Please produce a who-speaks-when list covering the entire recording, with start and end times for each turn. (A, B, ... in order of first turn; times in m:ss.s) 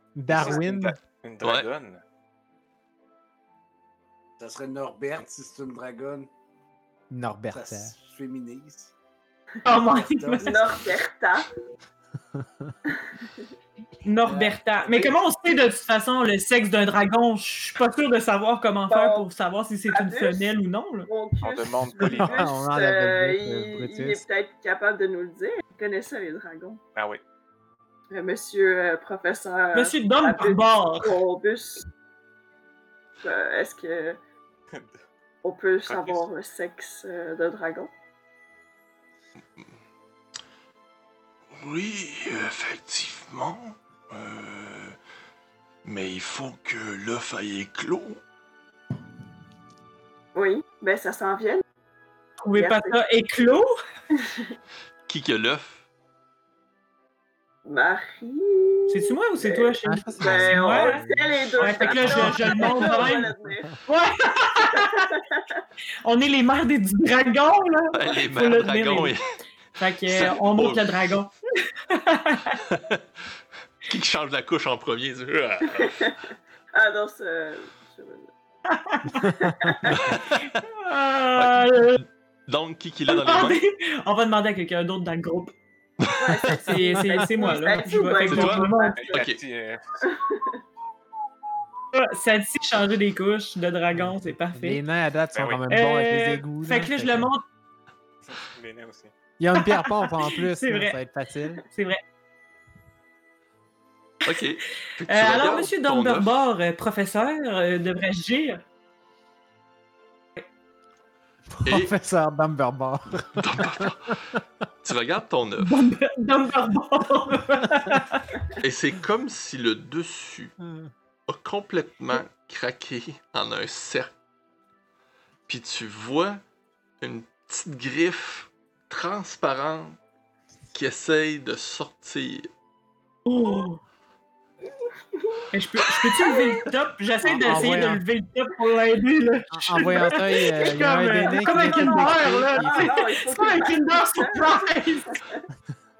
0:00.2-0:01.0 A
0:00.3-0:02.0 B
0:00.4-0:00.6 C
0:01.4-0:01.7 D
0:04.4-0:06.3 E
0:07.1-0:08.0 A
0:07.5-0:08.9 E
0:09.6-0:10.7 F
0:09.8-0:10.9 E
0:10.4-0:11.5 C
0:12.9-0:13.4 C
0:14.0-0:21.1 F
0:18.9-0:19.3 C
0:19.9-0:20.5 C
0:21.1-0:26.8 C
0:21.4-0:22.6 B
0:22.1-0:24.2 A
0:27.0-0:27.2 B
0:28.1-0:31.9 C
0:29.7-0:31.2 F
0:33.2-0:34.2 C
0:35.4-0:37.9 C
0:35.9-0:36.2 B
0:41.5-0:45.0 D
0:45.8-0:48.2 D
0:50.4-0:51.6 C
0:52.4-0:53.8 F
0:52.6-0:53.0 C
0:54.1-0:54.6 C
0:55.1-0:55.8 D
0:57.6-1:03.7 C
0:58.9-1:01.0 F
0:59.8-1:03.8 A
1:01.6-1:03.4 F
1:03.9-1:05.2 F
1:04.6-1:05.6 C
1:06.0-1:09.2 F
1:07.9-1:09.2 D
1:09.8-1:12.6 F
1:10.1-1:10.9 D
1:12.6-1:13.0 D
1:13.9-1:16.1 D
1:15.8-1:16.2 C
1:16.7-1:18.3 C
1:18.7-1:22.0 F
1:19.4-1:20.1 C
1:19.9-1:20.5 D
1:21.4-1:23.6 D
1:23.1-1:25.6 F
1:26.0-1:26.5 D
1:26.2-1:29.3 C
1:26.4-1:29.0 F
1:28.3-1:29.4 D
1:29.0-1:29.8 B
1:30.0-1:30.6 C
1:31.9-1:34.8 F
1:34.0-1:37.3 A
1:35.3-1:35.6 B
1:35.7-1:37.4 F
1:38.2-1:39.1 B
1:39.4-1:41.6 A
1:39.6-1:41.0 F
1:41.6-1:42.0 F
1:44.2-1:46.5 D
1:45.0-1:48.6 F
1:51.5-1:54.1 A
1:51.6-1:51.9 D
1:53.4-1:54.1 D
1:54.8-1:55.8 D
1:55.6-1:58.4 F
1:58.6-2:00.6 D
2:00.6-2:00.9 A
2:01.3-2:04.1 D
2:05.5-2:06.4 D
2:07.0-2:10.0 D
2:10.7-2:12.5 D
2:13.3-2:13.8 F
2:15.1-2:15.5 C
2:15.5-2:25.2 F
2:16.2-2:16.7 C
2:17.2-2:18.0 A
2:17.2-2:17.8 C
2:19.5-2:22.9 A
2:20.5-2:25.4 C